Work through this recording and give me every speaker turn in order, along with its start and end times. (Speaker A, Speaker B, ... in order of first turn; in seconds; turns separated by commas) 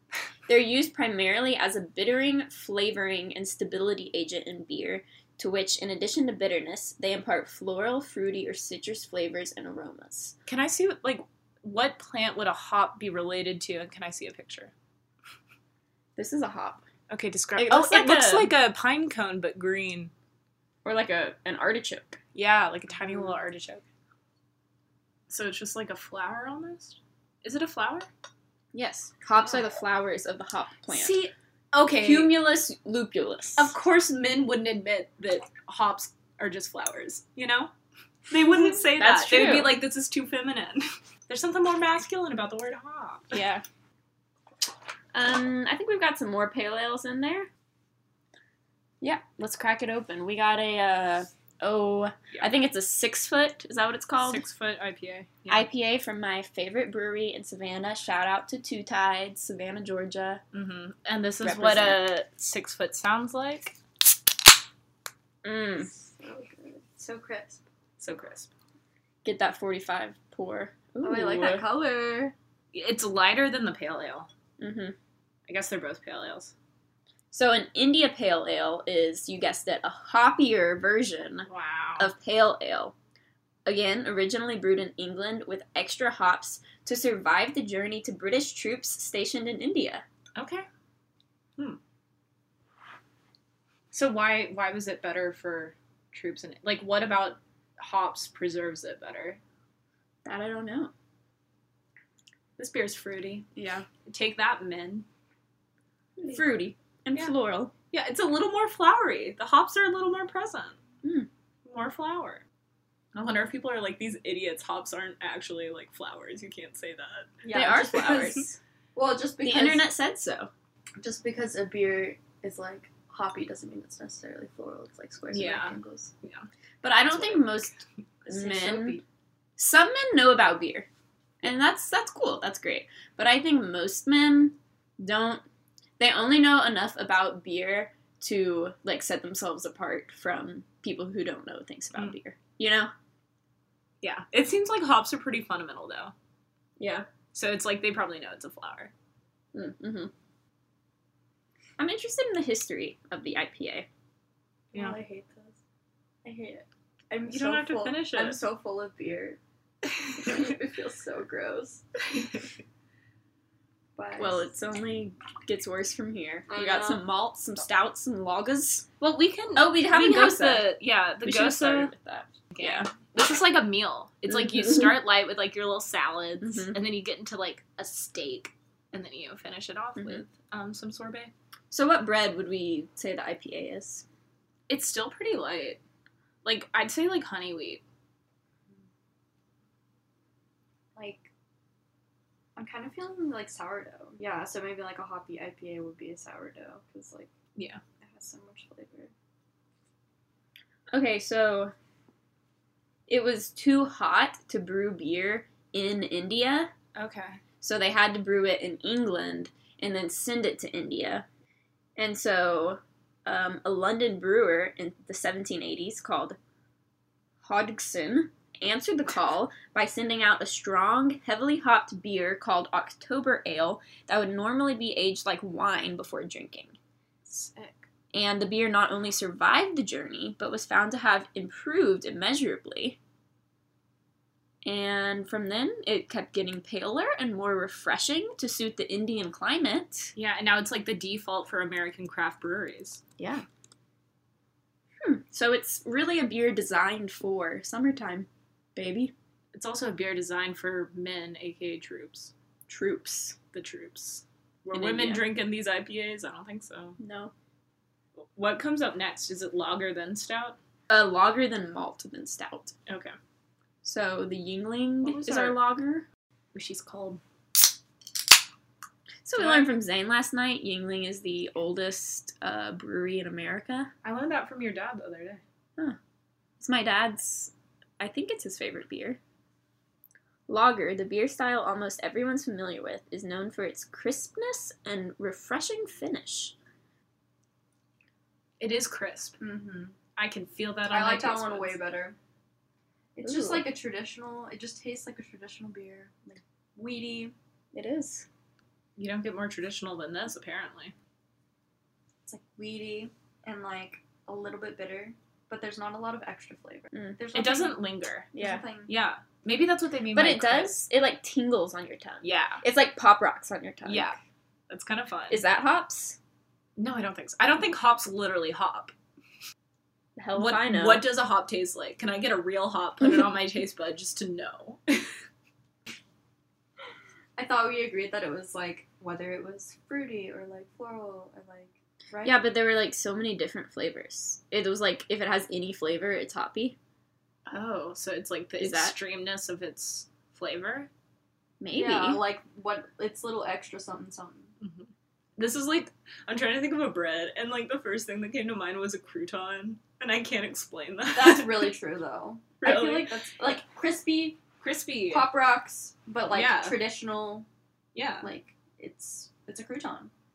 Speaker A: 0.5-10.3, Speaker B: 10.5-14.7, Speaker A: 16.2-16.8, Speaker B: 17.1-20.1, Speaker A: 17.6-18.5, Speaker A: 20.8-22.2, Speaker B: 22.4-23.9, Speaker B: 25.3-28.1, Speaker A: 28.7-31.2, Speaker B: 30.9-32.4, Speaker A: 32.0-33.7, Speaker B: 33.6-37.7, Speaker B: 38.3-43.4, Speaker A: 38.4-39.8, Speaker A: 43.3-43.6, Speaker A: 45.1-47.5, Speaker A: 49.0-54.4, Speaker B: 54.2-55.7, Speaker A: 55.5-60.4, Speaker B: 60.5-63.8, Speaker A: 61.4-62.0, Speaker A: 65.4-65.9, Speaker C: 65.9-67.6, Speaker B: 68.0-68.5, Speaker A: 69.2-71.7, Speaker C: 71.0-72.3, Speaker B: 72.7-74.3, Speaker A: 74.6-75.0, Speaker B: 75.5-76.5, Speaker A: 77.3-81.5, Speaker B: 81.5-82.1, Speaker A: 82.0-82.9, Speaker A: 83.7-90.0, Speaker B: 90.4-90.7, Speaker B: 93.9-99.4, Speaker A: 100.2-100.9, Speaker B: 102.6-103.5, Speaker A: 103.5-103.9, Speaker B: 104.0-105.1, Speaker A: 106.2-107.7, Speaker B: 107.9-110.8, Speaker A: 111.0-111.3, Speaker B: 111.7-112.4, Speaker B: 113.1-117.4, Speaker C: 117.4-119.9, Speaker A: 117.5-118.6, Speaker A: 119.4-120.5, Speaker C: 121.0-126.1, Speaker B: 125.3-126.5, Speaker A: 126.8-129.0, Speaker B: 127.2-127.5, Speaker C: 128.3-129.0, Speaker A: 129.6-130.9, Speaker A: 131.4-135.4, Speaker A: 136.0-142.9, Speaker B: 144.0-146.1, Speaker A: 146.8-147.1, Speaker B: 147.3-148.9, Speaker A: 149.5-150.1, Speaker A: 151.8-153.9, Speaker C: 154.7-155.6, Speaker C: 156.2-159.4, Speaker B: 157.3-158.4, Speaker B: 160.0-160.3, Speaker C: 160.2-161.8, Speaker C: 164.0-164.5, Speaker A: 164.2-168.9, Speaker C: 166.5-167.0, Speaker B: 169.0-171.9, Speaker A: 169.6-172.9, Speaker B: 172.5-181.3, Speaker A: 174.3-174.8, Speaker A: 176.4-176.8, Speaker A: 180.0-180.2, Speaker A: 181.7-184.1, Speaker B: 184.7-185.8, Speaker B: 186.4-187.8, Speaker C: 191.0-191.3, Speaker C: 192.6-197.3, Speaker B: 197.6-197.8, Speaker C: 198.0-199.1, Speaker A: 200.9-201.7, Speaker A: 203.1-206.7, Speaker B: 206.9-207.4, Speaker A: 207.6-211.3, Speaker A: 212.0-216.4, Speaker A: 217.4-226.8, Speaker B: 227.2-227.9, Speaker A: 228.1-233.0, Speaker A: 234.6-240.1, Speaker B: 240.2-243.0, Speaker A: 243.2-243.4, Speaker A: 245.0-249.1, Speaker B: 249.5-252.3, Speaker A: 252.7-253.4, Speaker B: 253.5-257.0, Speaker A: 254.7-255.3, Speaker A: 257.0-257.3, Speaker B: 258.2-260.6, Speaker A: 260.9-262.7, Speaker B: 262.9-263.1, Speaker A: 263.8-266.1, Speaker B: 265.0-265.6, Speaker B: 266.5-267.2, Speaker A: 269.2-273.9, Speaker B: 269.4-269.7, Speaker B: 274.0-275.4, Speaker A: 276.6-279.2, Speaker A: 280.5-286.6, Speaker B: 288.6-289.4, Speaker C: 289.4-290.0, Speaker B: 290.2-291.8, Speaker C: 290.9-292.2, Speaker C: 293.2-297.4, Speaker A: 293.2-293.7, Speaker A: 297.7-298.3, Speaker B: 299.0-300.9, Speaker C: 302.3-307.8, Speaker B: 307.3-308.4, Speaker A: 308.4-308.6, Speaker C: 308.4-308.9, Speaker B: 308.9-310.8, Speaker A: 310.1-314.2, Speaker B: 312.2-312.6, Speaker B: 313.9-314.2, Speaker B: 314.7-315.4, Speaker A: 315.3-316.2, Speaker B: 316.8-318.9, Speaker A: 320.2-321.1, Speaker B: 320.4-325.0, Speaker C: 327.4-332.4, Speaker A: 332.2-336.8, Speaker B: 337.5-340.9, Speaker A: 338.6-339.0, Speaker A: 341.6-342.2, Speaker C: 341.7-344.5, Speaker B: 344.6-351.7, Speaker C: 351.1-354.4, Speaker B: 352.6-353.1, Speaker B: 354.6-355.3, Speaker C: 355.1-357.5, Speaker B: 356.3-356.8, Speaker B: 357.9-358.3, Speaker C: 358.2-360.1